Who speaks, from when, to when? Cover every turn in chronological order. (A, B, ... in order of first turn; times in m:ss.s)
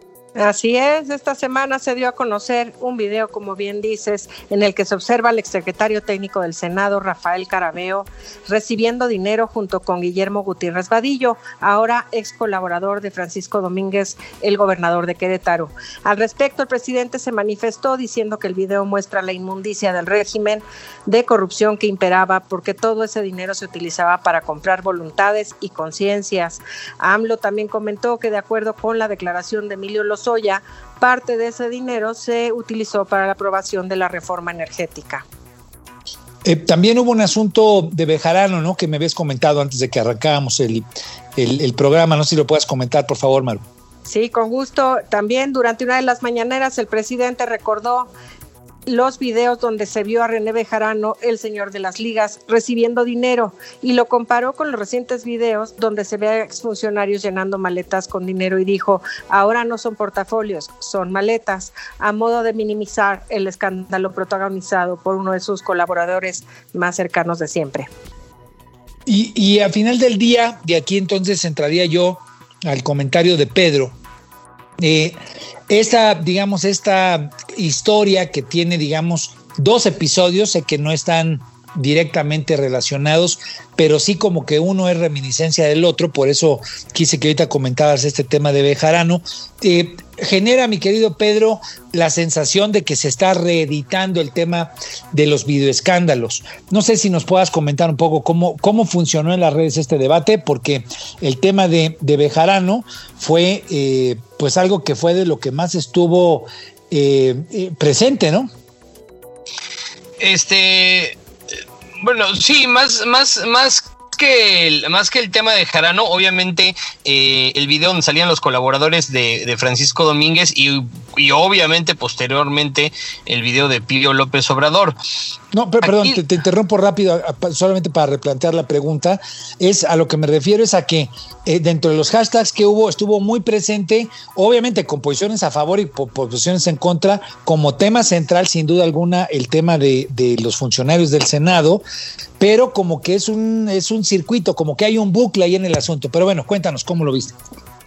0:00.4-0:35.2 A
0:36.4-0:43.6 B
0:44.1-0:48.1 A
0:48.9-1:07.9 A
1:09.1-1:14.0 B
1:14.8-1:48.5 B
1:50.2-1:51.2 C
1:52.0-2:05.0 C
2:05.5-2:21.8 B
2:05.8-2:06.2 C
2:22.4-2:27.4 B